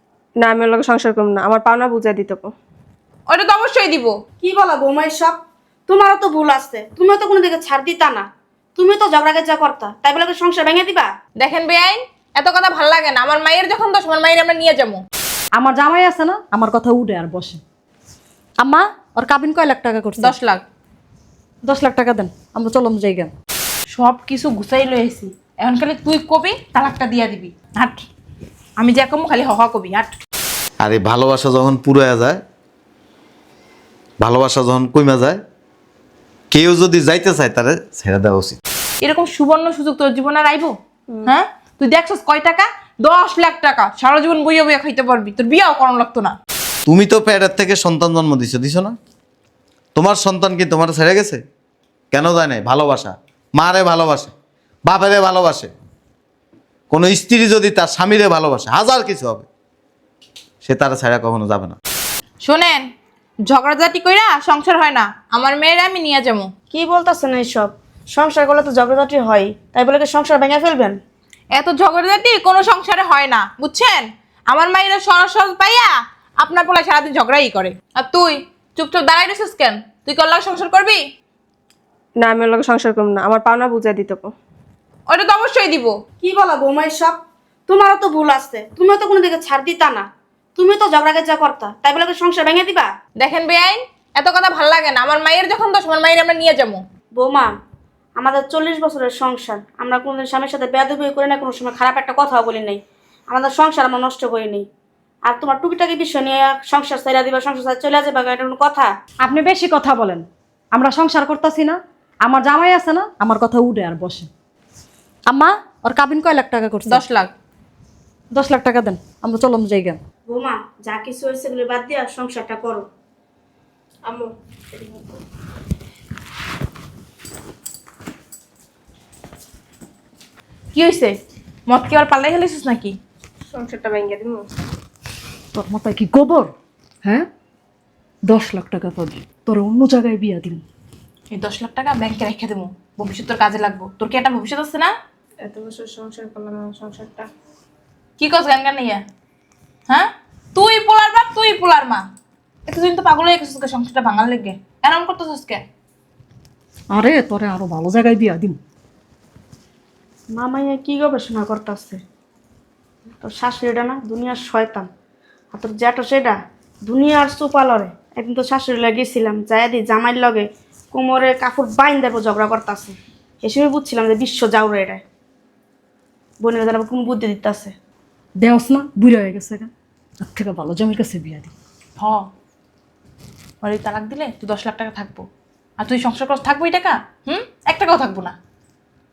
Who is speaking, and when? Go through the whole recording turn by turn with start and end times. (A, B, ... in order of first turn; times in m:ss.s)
0:00.4-0:02.5 A
0:03.3-0:04.1 B
0:04.4-0:11.1 C
0:11.4-0:15.0 B
0:15.6-0:17.6 D
0:18.6-0:20.3 D
0:20.2-0:20.6 B
0:21.6-0:23.3 D
0:23.9-0:28.0 B
0:28.8-0:30.2 B
0:30.8-0:32.4 E
0:34.2-0:35.4 E
0:36.5-0:38.6 E
0:39.0-0:46.4 B
0:46.8-0:49.0 E
0:49.9-0:51.4 E
0:52.1-0:54.3 E
0:54.8-0:55.7 E
0:56.9-0:59.5 E
1:00.6-1:01.8 E
1:02.4-1:02.9 B
1:03.5-1:06.5 B
1:06.7-1:11.0 C
1:11.5-1:21.0 B
1:22.2-1:24.3 A
1:25.1-1:26.0 B
1:26.2-1:32.9 C
1:33.2-1:36.8 B
1:37.2-1:37.5 C
1:38.2-1:44.7 C
1:45.2-1:48.9 C
1:49.2-1:54.3 D
1:55.3-1:57.0 D
1:56.9-1:57.3 B
1:58.3-2:00.0 D
2:00.3-2:02.9 C
2:04.0-2:05.2 A
2:10.7-2:13.0 B
2:13.5-2:14.5 A
2:15.5-2:16.5 D
2:18.3-2:20.6 D
2:21.3-2:24.9 B
2:25.4-2:27.3 A
2:28.2-2:29.0 B
2:29.9-2:32.0 B
2:32.7-2:35.6 B
2:36.9-2:38.6 D
2:40.3-2:42.0 C
2:43.2-2:44.9 C
2:45.5-2:55.0 C
2:56.4-2:57.7 C
2:58.4-2:59.7 D
3:00.2-3:01.5 D
3:02.0-3:02.3 B
3:03.6-3:05.2 B
3:05.8-3:08.3 B